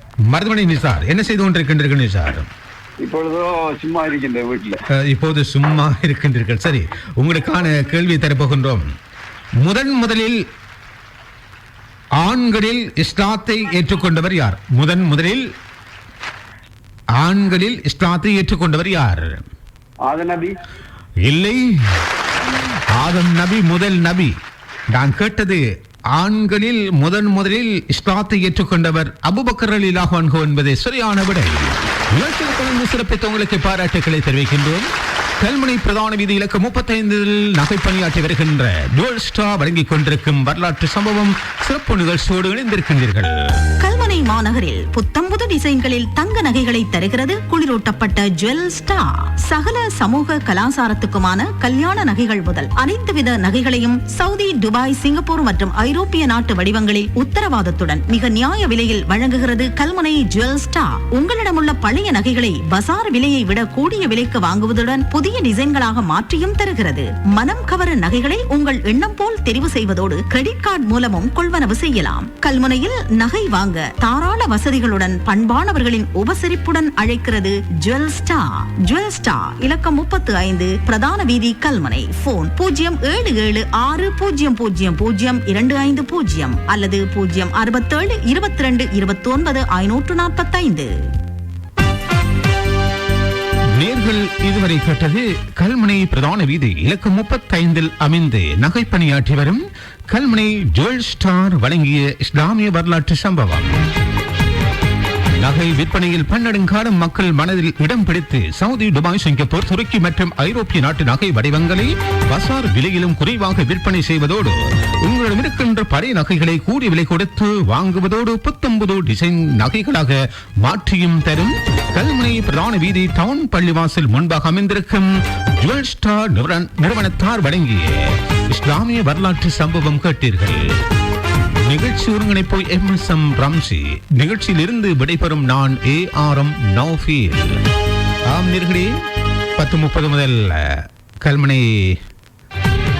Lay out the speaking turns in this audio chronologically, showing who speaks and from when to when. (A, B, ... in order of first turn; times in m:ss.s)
0:00.3-0:02.5 A
0:03.0-0:04.8 B
0:05.0-0:08.8 A
0:09.6-0:10.4 A
0:12.2-0:15.4 A
0:17.2-0:19.4 A
0:20.0-0:20.5 B
0:21.2-0:21.6 A
0:22.9-0:24.3 A
0:24.9-0:25.6 A
0:26.2-0:34.9 A
0:35.4-0:43.3 A
0:43.8-1:30.9 C
1:33.8-1:43.7 A
1:45.4-2:10.7 A
2:11.6-2:17.6 A
2:18.3-2:18.9 A
2:19.6-2:21.9 A